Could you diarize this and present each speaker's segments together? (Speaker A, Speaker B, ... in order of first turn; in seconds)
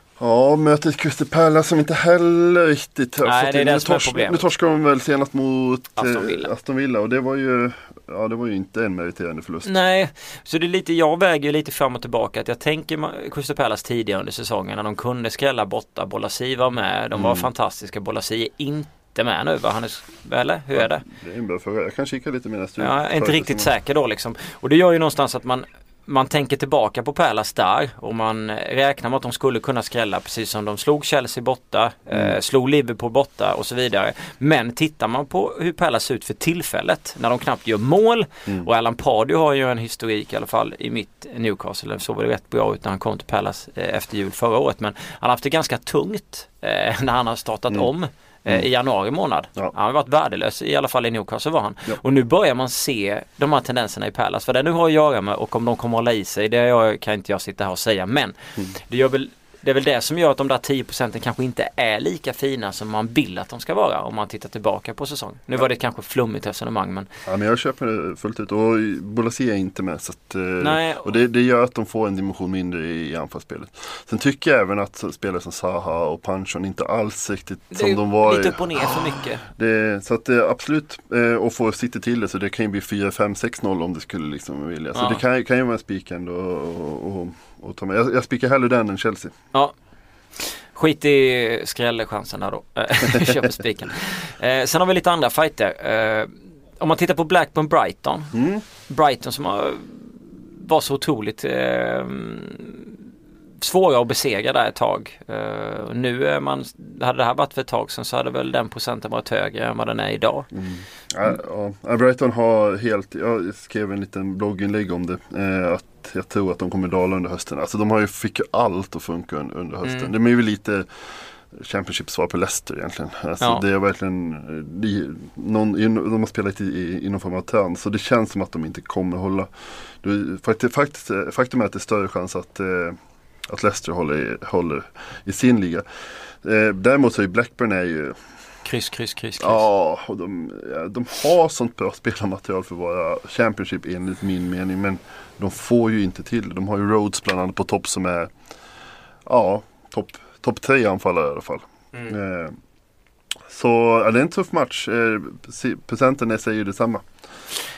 Speaker A: 0.2-9.7, 17.1-17.5, 20.7-23.7, 32.1-32.4, 67.2-89.3, 93.1-93.3, 98.3-98.6, 110.5-120.9, 121.5-129.5, 130.0-133.0, 133.5-135.8, 136.4-138.2, 139.4-148.3, 149.2-152.6, 153.5-157.1
Speaker B: 3.2-4.4, 6.0-6.5, 9.6-21.0, 22.8-67.1, 70.6-71.1, 77.7-79.4, 84.9-85.2, 90.4-98.3, 98.9-103.0, 103.6-110.5, 119.8-120.1, 138.6-139.7